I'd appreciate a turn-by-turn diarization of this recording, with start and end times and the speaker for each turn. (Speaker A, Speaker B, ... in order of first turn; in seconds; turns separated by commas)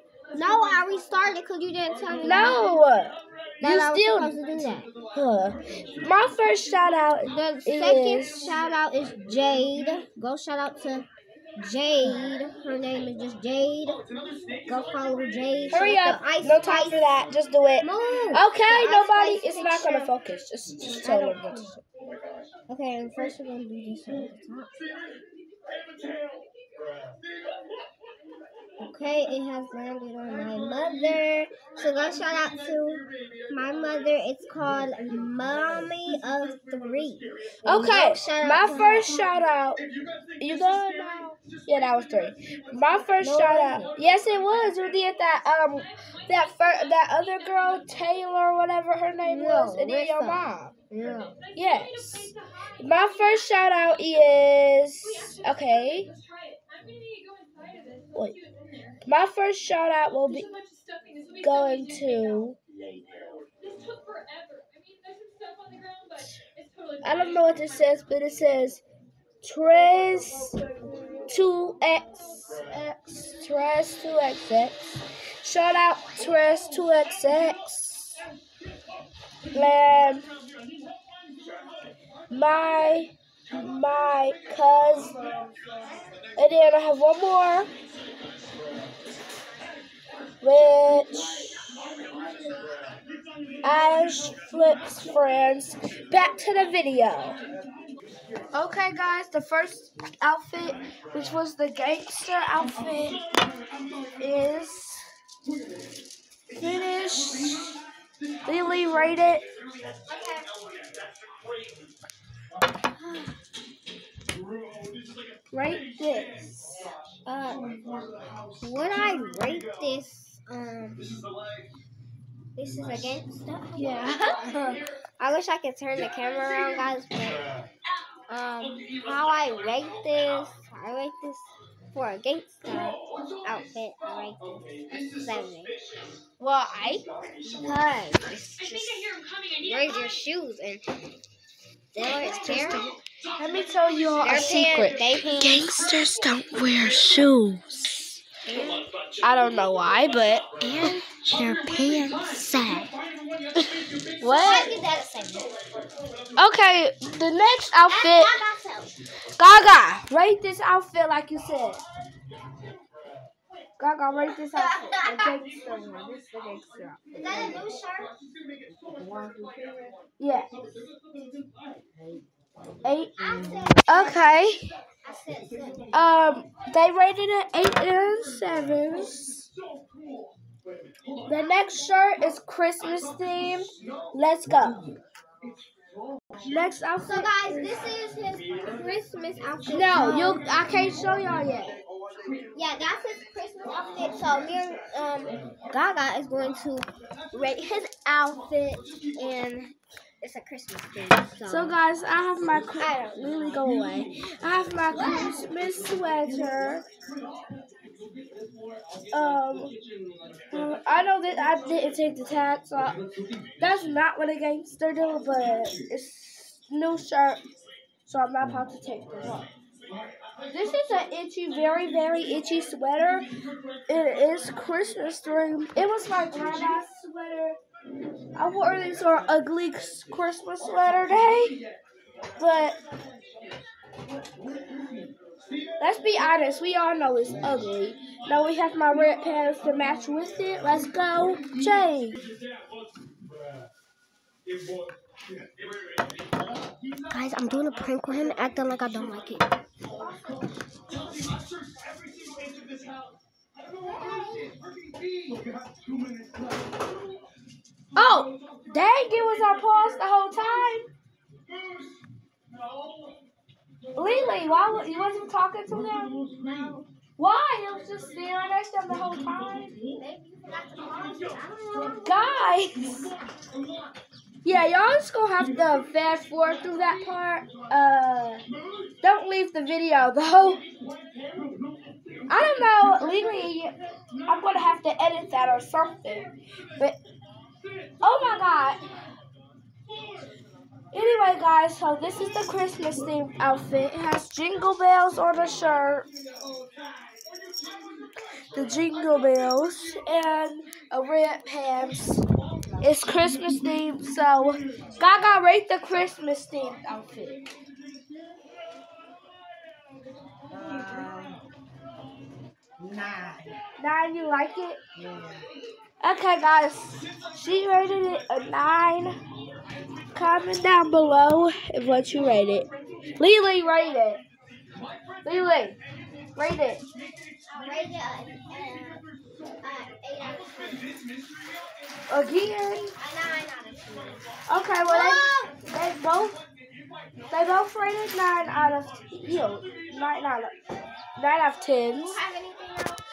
Speaker A: 0.3-2.7, Speaker B: 2.2-4.3, Speaker A: 3.6-4.9, Speaker B: 5.1-8.5, Speaker A: 7.2-14.0, Speaker A: 14.7-17.0, Speaker B: 15.7-21.8, Speaker A: 17.8-20.1, Speaker A: 20.8-21.7, Speaker A: 22.7-24.9, Speaker A: 28.8-39.2, Speaker B: 37.6-39.8, Speaker B: 40.4-50.7, Speaker A: 43.2-44.0, Speaker A: 49.2-51.4, Speaker B: 51.5-56.1, Speaker B: 59.0-60.5, Speaker B: 61.4-62.6, Speaker B: 67.0-68.8, Speaker B: 69.4-70.6, Speaker B: 71.3-78.2, Speaker B: 79.5-80.3, Speaker B: 82.3-85.1, Speaker B: 86.3-87.7, Speaker B: 90.4-91.8, Speaker B: 93.6-97.4, Speaker B: 98.5-103.2, Speaker B: 104.2-105.0, Speaker B: 106.5-107.8, Speaker B: 108.5-109.4, Speaker A: 110.1-110.5, Speaker A: 113.0-113.4, Speaker B: 115.5-116.9, Speaker A: 117.2-117.7, Speaker A: 118.6-121.2, Speaker A: 122.5-124.4, Speaker B: 123.8-124.8, Speaker A: 125.2-127.5, Speaker A: 128.3-135.8, Speaker B: 136.4-137.0, Speaker A: 137.4-140.8, Speaker A: 141.9-143.0, Speaker B: 142.0-142.8, Speaker B: 143.4-148.2, Speaker A: 144.2-145.8, Speaker A: 148.4-148.9, Speaker B: 149.2-151.0, Speaker A: 150.6-152.9, Speaker B: 153.5-154.7, Speaker A: 154.3-155.5, Speaker B: 156.4-158.4, Speaker A: 157.9-159.0, Speaker B: 159.4-161.8, Speaker B: 163.8-167.6, Speaker A: 164.5-165.4, Speaker A: 167.1-168.1, Speaker C: 168.9-169.3, Speaker A: 169.3-169.9, Speaker B: 170.2-170.5, Speaker B: 172.8-173.3, Speaker A: 173.2-174.5, Speaker B: 173.8-174.7, Speaker A: 175.0-176.0, Speaker B: 175.9-179.5, Speaker B: 181.2-184.8, Speaker B: 186.4-187.3, Speaker A: 187.0-190.5, Speaker B: 189.7-191.8, Speaker A: 192.5-201.8, Speaker B: 201.4-206.8, Speaker A: 202.7-204.1, Speaker A: 204.9-205.3, Speaker B: 209.1-209.7, Speaker B: 210.5-213.0, Speaker B: 213.6-217.4, Speaker B: 218.1-219.5, Speaker B: 220.5-223.2, Speaker B: 223.9-227.6, Speaker B: 228.3-231.6, Speaker B: 232.4-232.8, Speaker B: 235.8-242.2, Speaker A: 247.1-249.6, Speaker A: 253.9-254.6, Speaker B: 257.9-260.9, Speaker B: 263.9-266.2, Speaker A: 266.3-266.9, Speaker B: 267.2-269.8, Speaker A: 270.0-272.4, Speaker B: 272.0-273.1, Speaker B: 274.4-278.4, Speaker B: 279.0-280.6, Speaker B: 282.3-283.7, Speaker B: 284.2-287.0, Speaker B: 288.0-288.8, Speaker B: 290.9-296.1, Speaker B: 298.5-302.2, Speaker B: 302.8-307.4, Speaker C: 310.5-311.4, Speaker C: 312.8-313.5, Speaker B: 313.8-314.8, Speaker B: 316.0-319.1, Speaker B: 320.1-324.2, Speaker B: 325.2-325.8, Speaker B: 326.4-326.8, Speaker A: 327.5-329.0, Speaker A: 329.6-330.9, Speaker B: 332.1-332.9, Speaker A: 332.7-334.3, Speaker B: 334.5-336.4, Speaker A: 334.8-335.6, Speaker B: 337.3-340.6, Speaker B: 341.2-342.2, Speaker A: 342.1-343.0